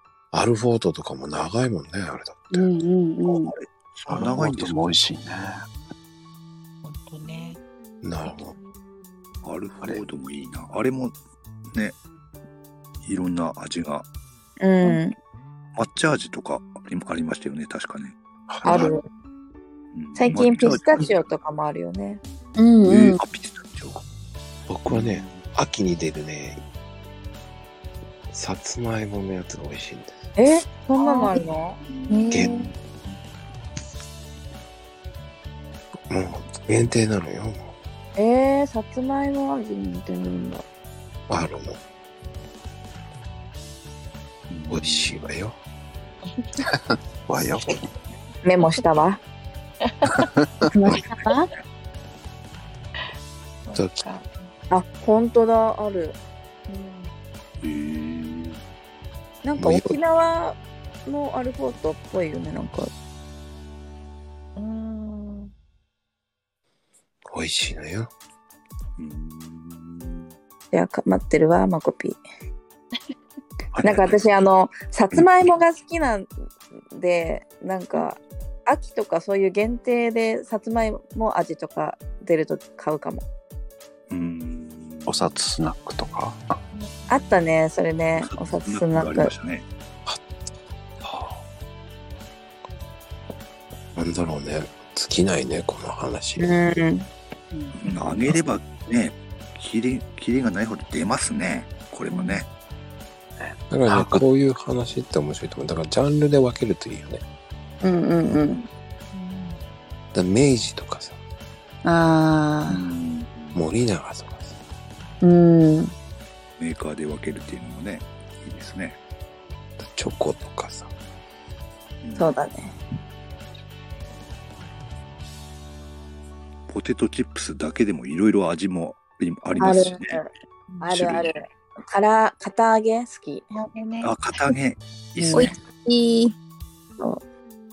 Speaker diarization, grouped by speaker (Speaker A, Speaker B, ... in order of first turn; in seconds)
Speaker A: 0.3-2.7, 8.0-8.5, 24.7-26.6, 28.3-30.3, 36.1-37.6, 41.3-41.8, 44.7-45.5, 53.7-54.0, 59.6-60.0, 67.3-68.1, 94.0-96.7, 103.7-107.2, 110.1-111.2, 113.5-114.5, 119.8-120.9
Speaker B: 2.5-3.5, 22.6-23.2, 32.1-32.5, 50.8-51.5, 135.3-136.3
Speaker C: 3.2-4.9, 9.4-11.1, 11.7-12.0, 13.0-14.1, 15.7-18.2, 19.9-21.4, 22.8-24.0, 24.9-25.4, 44.5-45.3, 57.6-58.6, 69.0-70.3, 73.7-74.2, 84.1-85.4, 88.2-89.6, 97.8-102.5, 112.7-113.6, 116.6-119.0, 122.0-122.3, 126.7-130.2, 134.0-135.6
Speaker D: 4.1-5.7, 18.5-18.9, 46.7-47.9, 50.1-50.5, 85.1-86.4, 103.4-104.2
Speaker E: 6.8-7.6, 8.3-8.5, 32.1-32.5, 53.6-54.5, 56.7-57.1, 64.5-65.5, 86.7-87.3, 109.1-109.6, 130.7-131.1, 133.5-134.1
Speaker F: 14.6-15.1, 18.6-19.0, 20.2-22.2, 30.4-32.2, 38.2-40.6, 48.4-49.2, 54.7-56.1, 59.4-62.9, 70.7-72.2, 73.8-76.3, 76.9-83.2, 87.1-89.3, 96.4-97.1, 107.8-108.6, 111.8-112.8, 115.2-115.9, 122.2-122.8, 129.6-130.3, 130.8-133.4